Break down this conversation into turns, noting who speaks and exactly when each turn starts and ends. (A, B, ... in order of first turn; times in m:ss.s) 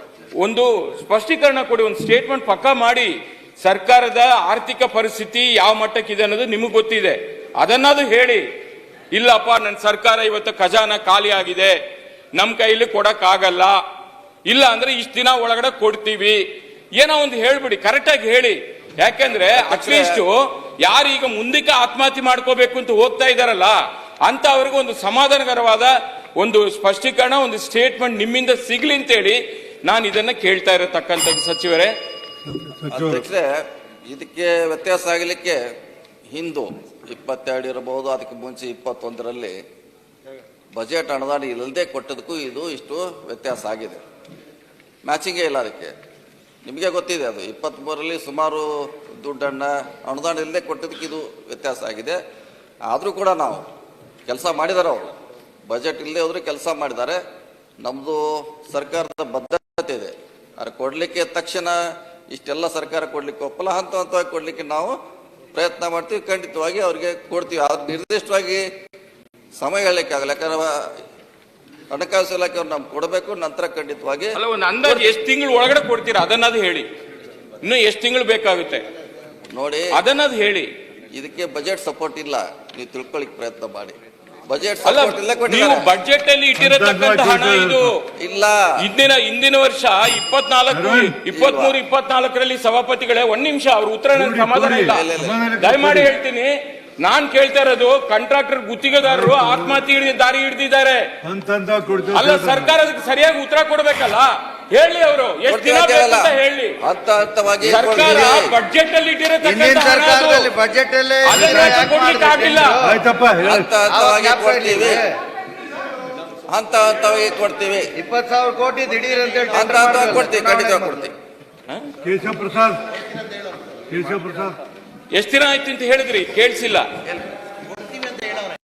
0:00.4-0:08.4 A
0:09.1-0:11.8 A
0:12.3-0:13.8 A
0:14.4-0:16.4 A
0:16.9-0:31.9 A
0:19.5-0:20.2 B
0:32.4-0:33.2 C
0:32.9-0:35.6 B
0:36.3-0:39.6 B
0:40.7-0:44.0 B
0:45.0-0:45.9 B
0:46.6-0:52.2 B
0:52.9-0:53.6 B
0:54.3-0:55.1 B
0:55.7-0:57.2 B
0:57.8-1:01.8 B
1:02.3-1:05.0 B
1:05.5-1:08.6 B
1:09.6-1:10.8 B
1:11.9-1:15.1 B
1:14.3-1:16.9 A
1:17.6-1:18.8 A
1:19.5-1:20.0 B
1:19.9-1:20.7 A
1:21.1-1:24.0 B
1:24.5-1:25.9 B
1:24.8-1:28.1 A
1:26.6-1:27.9 C
1:28.2-1:28.6 B
1:28.8-1:41.1 A
1:30.7-1:31.2 C
1:31.3-1:31.7 B
1:34.2-1:36.1 C
1:34.9-1:35.4 B
1:39.1-1:39.7 C
1:41.2-1:42.7 C
1:42.1-1:46.8 A
1:45.5-1:48.5 B
1:47.6-1:50.6 A
1:49.4-1:53.0 D
1:51.2-1:52.8 A
1:52.8-1:53.7 C
1:53.4-1:55.1 B
1:53.8-1:55.1 D
1:56.5-1:57.9 B
1:58.0-2:01.0 D
1:59.5-2:01.1 B
2:02.0-2:02.8 C
2:03.9-2:04.6 C
2:05.1-2:06.9 A